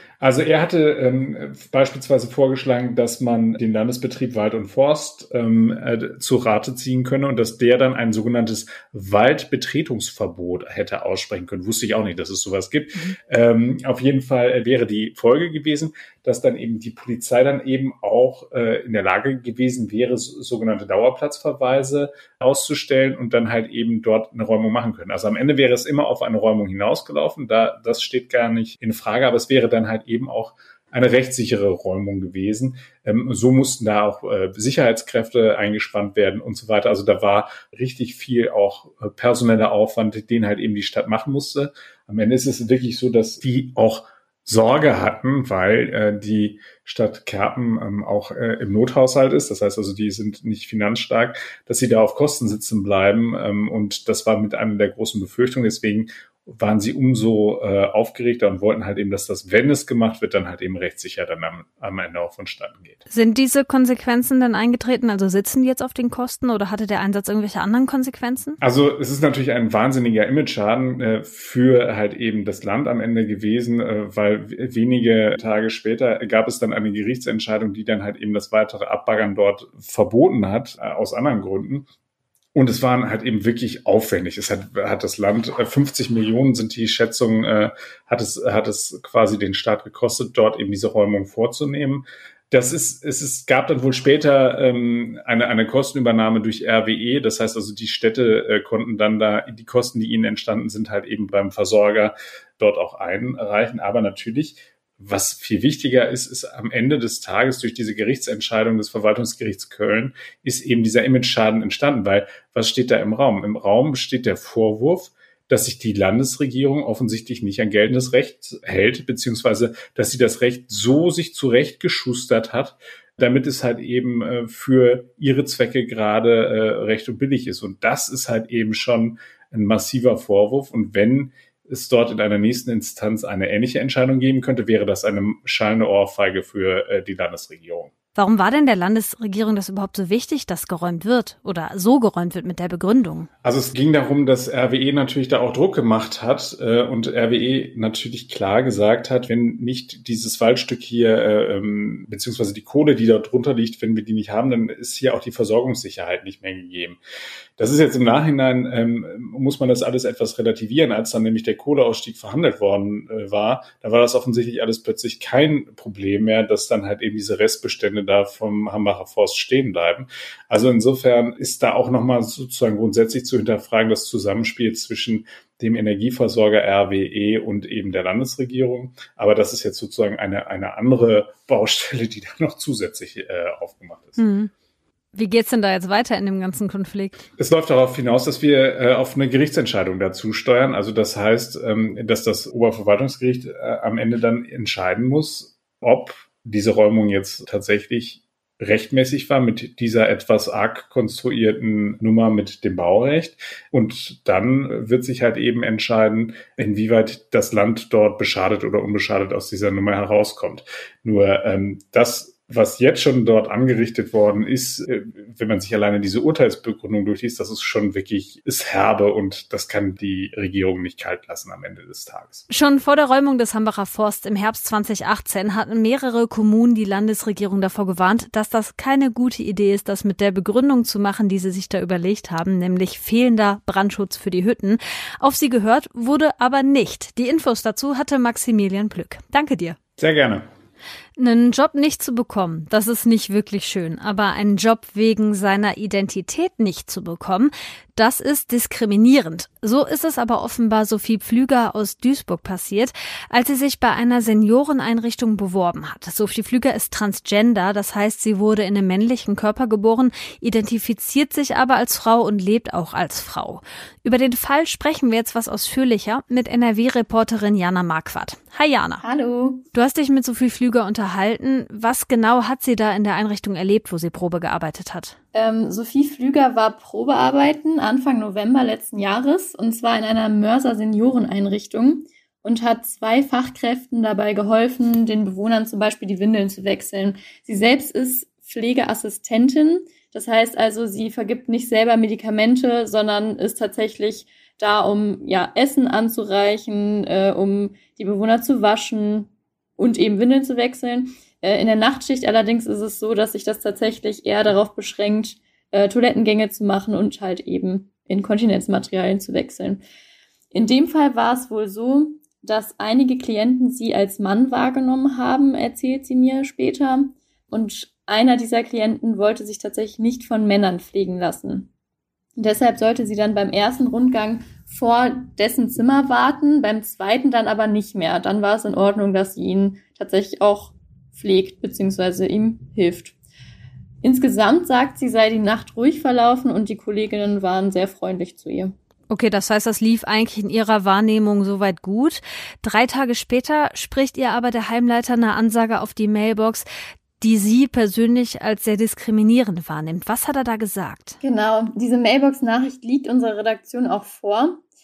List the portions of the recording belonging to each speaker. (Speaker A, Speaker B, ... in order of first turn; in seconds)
Speaker A: 0.2-63.0, 68.6-81.9, 82.5-137.9, 143.4-157.0, 157.6-184.2, 187.4-222.4, 240.0-240.4
Speaker B: 63.1-68.6, 138.2-143.3, 184.2-184.5, 185.1-187.2, 222.5-239.8, 241.2-269.0, 269.7-275.1, 339.1-346.6, 347.2-351.2
Speaker C: 269.0-269.6, 275.3-309.8, 310.5-321.7, 322.4-333.1, 334.0-338.7, 351.2-354.6